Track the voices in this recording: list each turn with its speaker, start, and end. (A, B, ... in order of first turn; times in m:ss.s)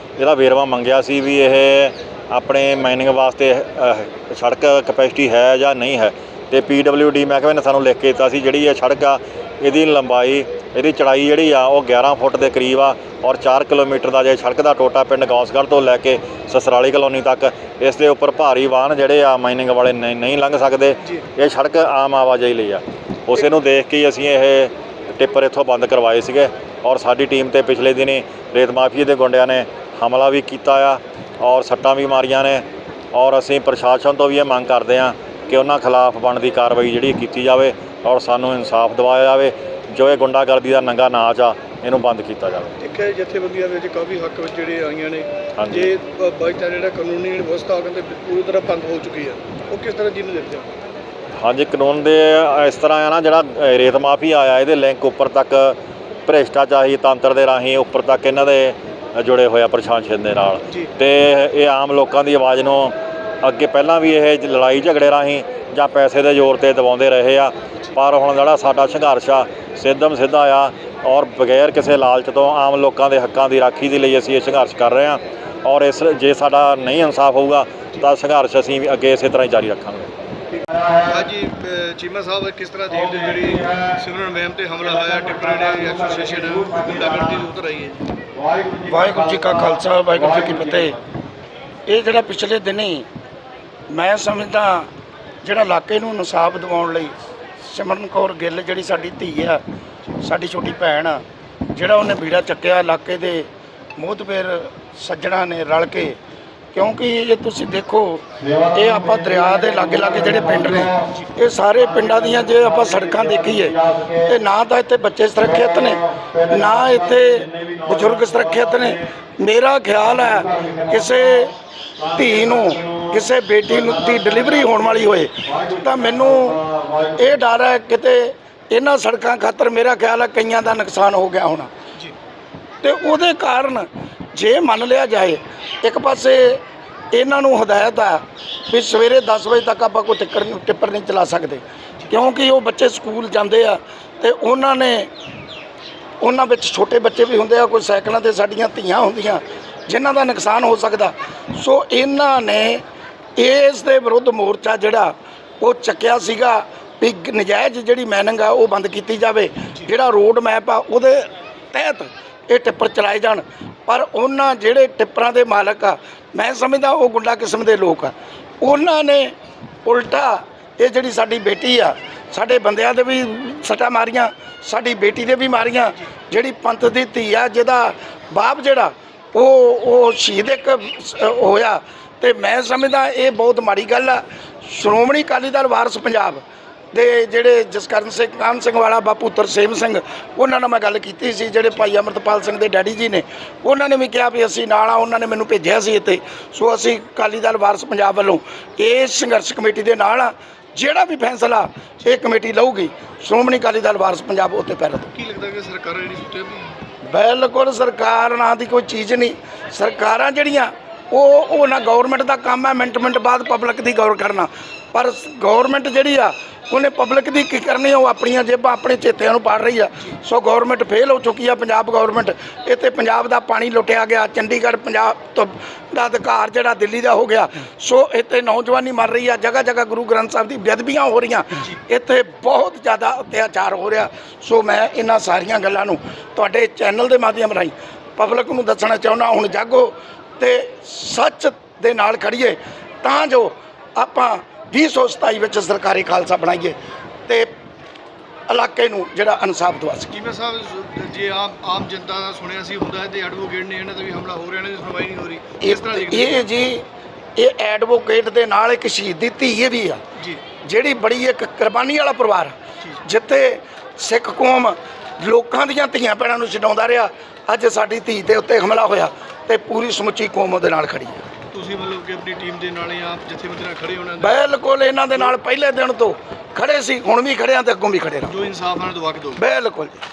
0:00.2-0:42.8 A
0:42.8-0:50.7 B
0:45.6-0:45.9 A
0:51.4-1:20.1 A
1:21.0-1:28.0 B
1:28.8-1:31.0 C
1:31.9-1:33.1 C
1:33.9-1:34.9 C
1:35.4-1:39.6 C
1:40.2-1:46.2 C
1:46.7-2:01.5 C
2:02.1-2:11.7 C
2:12.8-2:25.1 C
2:26.2-2:32.8 C
2:33.4-2:49.3 C
2:49.8-3:25.1 C
3:25.1-3:26.8 B
3:27.0-4:07.5 C
4:08.5-4:10.1 C
4:10.1-4:16.4 B
4:15.6-4:20.0 C
4:20.2-4:20.4 B
4:20.6-4:31.2 C
4:31.5-4:34.5 B
4:34.2-4:38.3 C
4:38.2-4:39.4 B
4:39.4-4:40.0 C